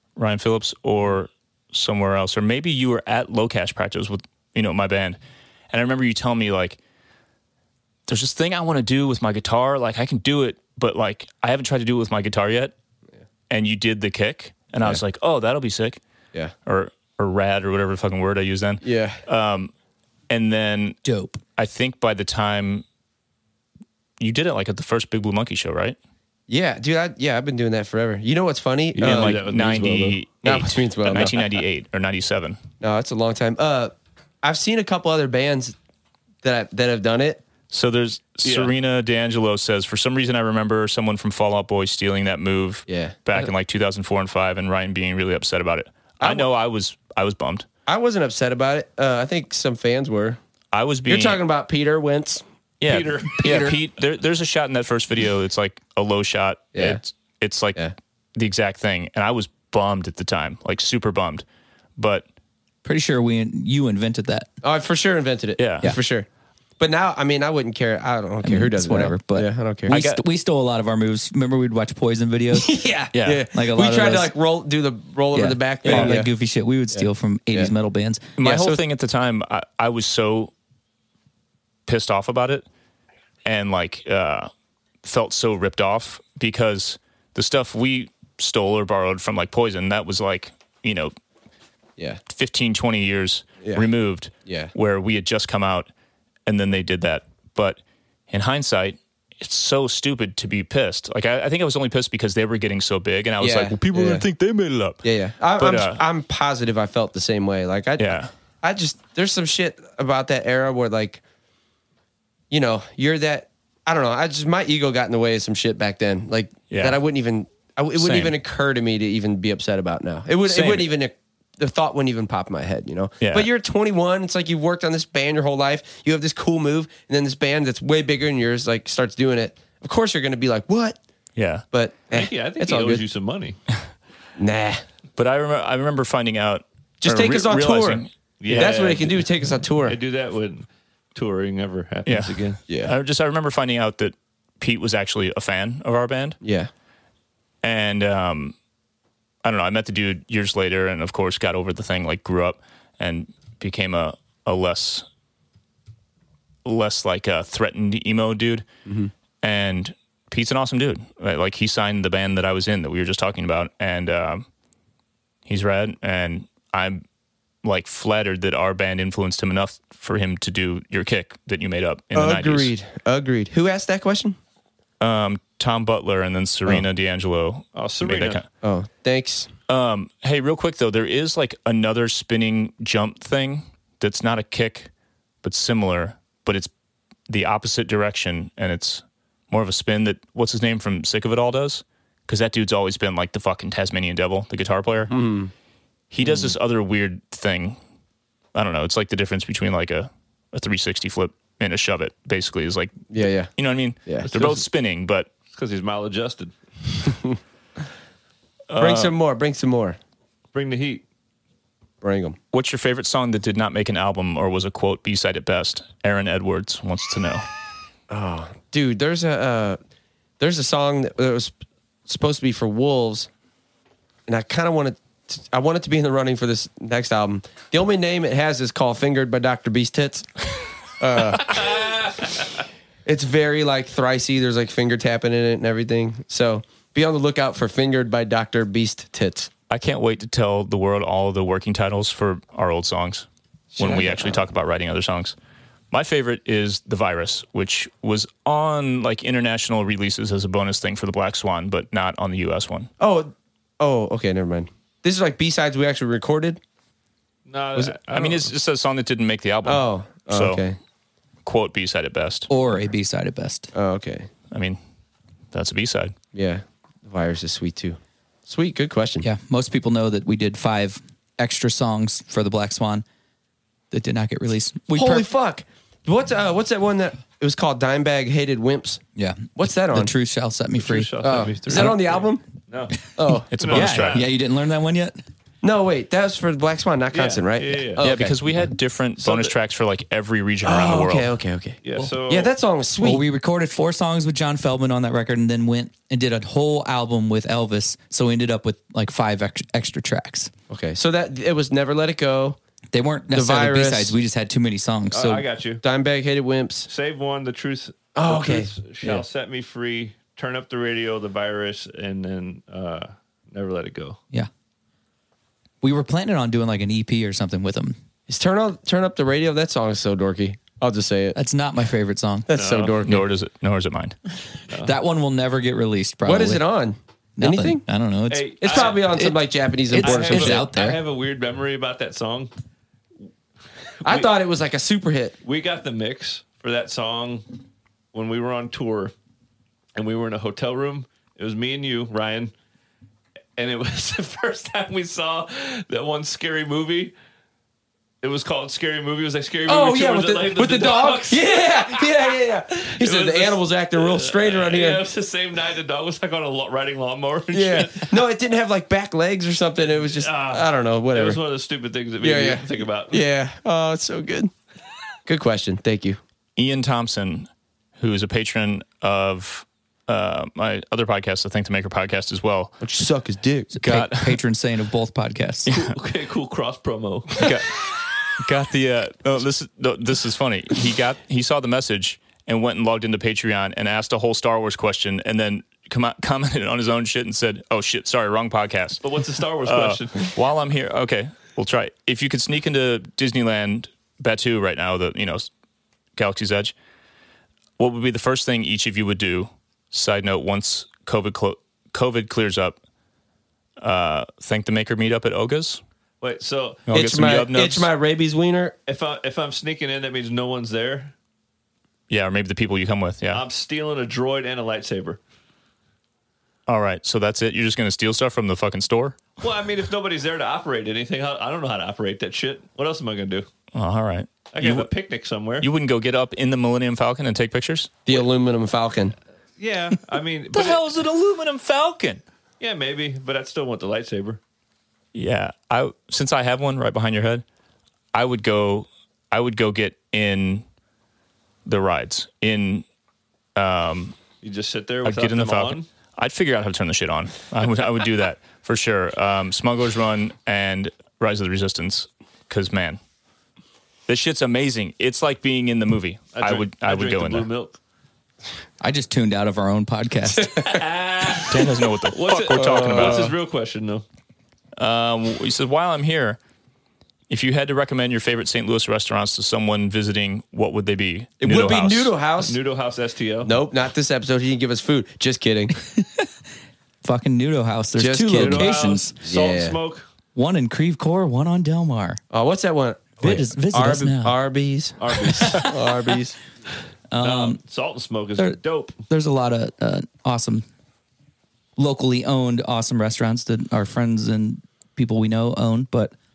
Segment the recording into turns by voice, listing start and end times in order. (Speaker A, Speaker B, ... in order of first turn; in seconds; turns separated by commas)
Speaker A: 0.2-5.2, Speaker A: 5.7-6.8, Speaker A: 8.1-12.7, Speaker A: 13.5-16.0, Speaker A: 16.7-19.7, Speaker B: 18.8-19.2, Speaker A: 20.3-21.0, Speaker C: 21.0-21.4, Speaker A: 21.6-22.9, Speaker A: 24.2-26.0, Speaker B: 26.5-29.4, Speaker D: 28.9-30.2, Speaker A: 29.0-32.6, Speaker B: 30.4-31.4, Speaker B: 32.8-35.8, Speaker B: 36.4-37.4, Speaker A: 37.7-47.7, Speaker D: 38.4-38.7, Speaker B: 42.9-43.4, Speaker B: 46.2-46.5, Speaker B: 47.9-50.4, Speaker A: 50.7-51.4, Speaker B: 51.1-52.4, Speaker A: 52.8-61.5, Speaker D: 52.9-53.8, Speaker B: 56.8-57.0, Speaker A: 62.0-62.3, Speaker C: 62.8-64.5, Speaker B: 64.6-66.3, Speaker A: 65.6-65.9, Speaker B: 66.8-70.0, Speaker C: 68.4-72.8, Speaker A: 69.9-70.2, Speaker B: 72.5-76.3, Speaker A: 73.1-73.4, Speaker C: 73.5-74.3, Speaker C: 75.3-78.3, Speaker A: 75.9-76.2, Speaker B: 76.9-77.7, Speaker A: 78.4-80.5, Speaker B: 78.4-78.8, Speaker A: 81.9-82.7, Speaker A: 83.5-84.5, Speaker A: 85.0-91.1, Speaker A: 92.3-95.9, Speaker B: 94.5-94.7, Speaker A: 96.5-105.0, Speaker B: 103.4-104.2, Speaker B: 105.0-111.2, Speaker A: 105.6-106.0, Speaker A: 108.0-108.3, Speaker B: 112.5-131.0, Speaker A: 116.7-117.0, Speaker A: 118.0-118.3, Speaker A: 120.5-120.9, Speaker A: 123.2-123.5, Speaker A: 131.4-131.6, Speaker B: 131.7-133.1, Speaker D: 132.1-133.6, Speaker B: 134.4-134.8, Speaker A: 135.2-138.8, Speaker B: 137.0-140.0, Speaker D: 138.4-139.3, Speaker D: 139.8-142.6, Speaker A: 142.1-146.4, Speaker B: 142.7-142.9, Speaker B: 146.4-146.7, Speaker A: 147.6-148.6, Speaker A: 149.4-155.1, Speaker A: 156.7-158.7, Speaker B: 158.9-159.1, Speaker A: 159.4-164.5, Speaker A: 165.5-167.0, Speaker A: 167.6-172.7, Speaker B: 172.1-174.4, Speaker A: 175.0-178.5, Speaker D: 177.8-178.4, Speaker B: 178.6-179.5, Speaker A: 179.7-184.9, Speaker A: 185.4-186.7, Speaker A: 187.3-195.1, Speaker B: 195.1-195.5, Speaker A: 196.1-197.8, Speaker A: 198.5-205.3, Speaker B: 203.1-203.5, Speaker D: 204.3-204.6, Speaker D: 205.5-206.5, Speaker B: 207.1-207.3, Speaker A: 208.7-209.2, Speaker B: 208.8-210.0, Speaker D: 210.5-211.0, Speaker B: 212.0-212.4, Speaker A: 212.5-217.5, Speaker B: 218.1-219.8, Speaker B: 220.4-221.5, Speaker B: 222.1-223.3, Speaker B: 224.3-230.3, Speaker B: 231.0-231.8, Speaker D: 231.5-232.3, Speaker B: 233.1-239.5, Speaker A: 239.7-245.4, Speaker B: 243.8-244.4, Speaker A: 245.9-252.9, Speaker B: 253.0-256.6, Speaker D: 257.5-258.5, Speaker A: 258.1-260.6, Speaker B: 259.6-260.8, Speaker A: 261.4-262.5, Speaker C: 262.5-263.7, Speaker B: 263.7-264.3, Speaker A: 264.5-264.8, Speaker A: 265.5-266.1, Speaker B: 266.3-269.3, Speaker C: 269.2-273.1, Speaker C: 273.9-275.3, Speaker B: 274.9-279.0, Speaker C: 279.2-282.0, Speaker B: 279.6-280.1, Speaker D: 280.8-283.0, Speaker B: 281.2-282.4, Speaker B: 283.2-283.5, Speaker C: 283.3-285.2, Speaker A: 283.5-284.2, Speaker D: 283.5-284.3, Speaker B: 285.6-288.4, Speaker D: 287.1-288.1, Speaker A: 288.0-291.3, Speaker D: 289.2-289.5, Speaker B: 290.6-293.2, Speaker D: 291.8-292.5, Speaker C: 293.0-300.5, Speaker B: 300.7-302.6, Speaker C: 302.9-305.4, Speaker B: 303.3-304.2, Speaker D: 305.1-305.8, Speaker B: 305.8-306.9, Speaker D: 306.9-314.2, Speaker B: 308.1-309.2, Speaker C: 315.8-318.0, Speaker B: 318.3-321.4, Speaker C: 321.4-322.5, Speaker B: 322.5-323.3, Speaker D: 322.5-323.0, Speaker A: 323.0-324.2, Speaker D: 324.7-325.0, Speaker C: 324.8-326.6, Speaker B: 326.2-327.8, Speaker C: 327.4-331.0, Speaker D: 328.3-329.3, Speaker B: 328.6-330.7, Speaker D: 330.0-332.5, Speaker D: 334.0-334.3, Speaker B: 334.1-335.4, Speaker D: 335.4-337.5, Speaker D: 338.1-339.1, Speaker D: 339.9-342.5, Speaker D: 343.6-347.1, Speaker D: 348.2-358.2, Speaker B: 349.7-355.0, Speaker B: 357.5-361.4, Speaker D: 360.1-363.2, Speaker B: 362.2-364.5, Speaker B: 365.3-366.2, Speaker A: 366.6-372.8, Speaker B: 372.8-373.7, Speaker C: 373.7-375.8, Speaker A: 373.8-374.4, Speaker D: 375.7-377.6, Speaker A: 375.7-375.9, Speaker A: 377.4-377.9, Speaker A: 378.4-389.0, Speaker D: 389.0-390.3, Speaker A: 389.6-395.5, Speaker A: 396.2-396.7, Speaker A: 397.8-402.8, Speaker A: 403.8-405.8, Speaker D: 406.2-406.9, Speaker A: 406.9-407.9, Speaker B: 406.9-408.8, Speaker D: 408.9-411.1, Speaker A: 412.1-413.4, Speaker D: 413.3-415.2, Speaker A: 416.7-419.2, Speaker D: 419.4-423.5, Speaker A: 423.7-424.9, Speaker D: 424.5-425.7, Speaker A: 425.6-427.9, Speaker B: 428.1-429.1, Speaker D: 429.6-430.8, Speaker A: 430.5-432.2, Speaker D: 432.6-434.4, Speaker A: 435.1-437.4, Speaker A: 438.1-440.6, Speaker A: 441.6-442.9, Speaker A: 443.6-444.2, Speaker D: 444.4-445.9, Speaker A: 445.0-453.0, Speaker A: 454.1-457.5, Speaker D: 456.3-457.8, Speaker C: 458.8-460.8, Speaker B: 460.4-460.7, Speaker D: 460.6-464.0, Speaker A: 461.5-463.4, Speaker B: 462.5-463.3, Speaker A: 464.8-466.4, Speaker A: 467.3-472.1, Speaker B: 471.4-472.6, Speaker D: 472.4-473.6, Speaker B: 473.4-475.8, Speaker C: 475.9-476.3, Speaker C: 477.0-479.2, Speaker B: 478.0-479.8, Speaker D: 478.3-480.1, Speaker C: 480.4-482.2, Speaker B: 482.3-486.4, Speaker C: 483.2-484.4, Speaker D: 485.0-485.8, Speaker C: 485.4-485.7, Speaker C: 487.1-487.6, Speaker D: 487.2-489.0, Speaker C: 488.4-490.6, Speaker C: 491.8-496.1